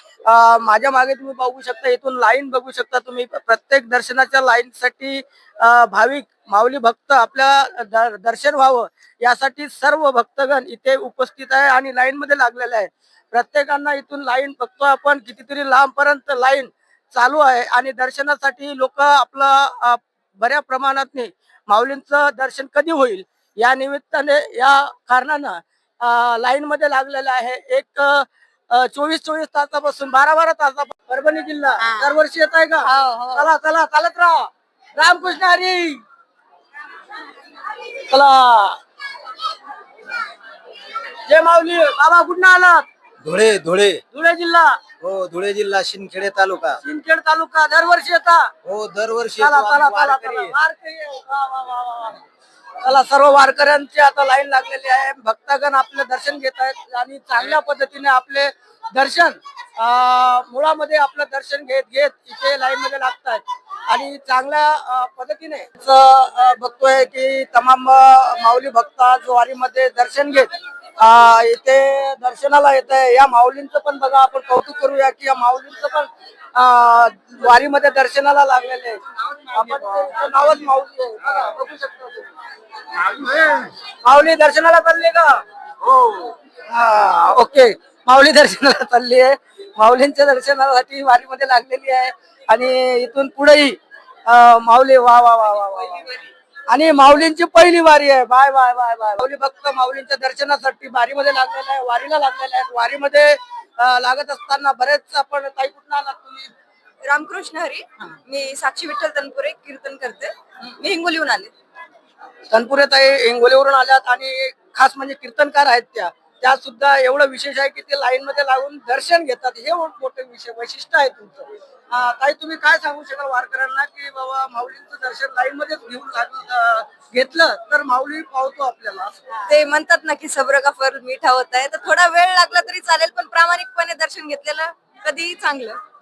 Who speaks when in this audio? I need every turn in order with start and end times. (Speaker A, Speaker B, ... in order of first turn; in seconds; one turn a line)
Speaker A: 0.2-36.0
Speaker B: 31.8-32.1
Speaker B: 32.8-33.5
Speaker A: 38.1-38.8
Speaker A: 41.3-42.9
Speaker C: 43.2-44.0
Speaker A: 44.1-44.8
Speaker C: 45.0-46.8
Speaker A: 46.8-48.5
Speaker C: 48.6-50.5
Speaker A: 49.4-52.2
Speaker A: 52.8-82.3
Speaker A: 83.0-96.0
Speaker A: 96.7-106.5
Speaker B: 107.0-111.5
Speaker A: 112.5-129.2
Speaker B: 129.5-135.8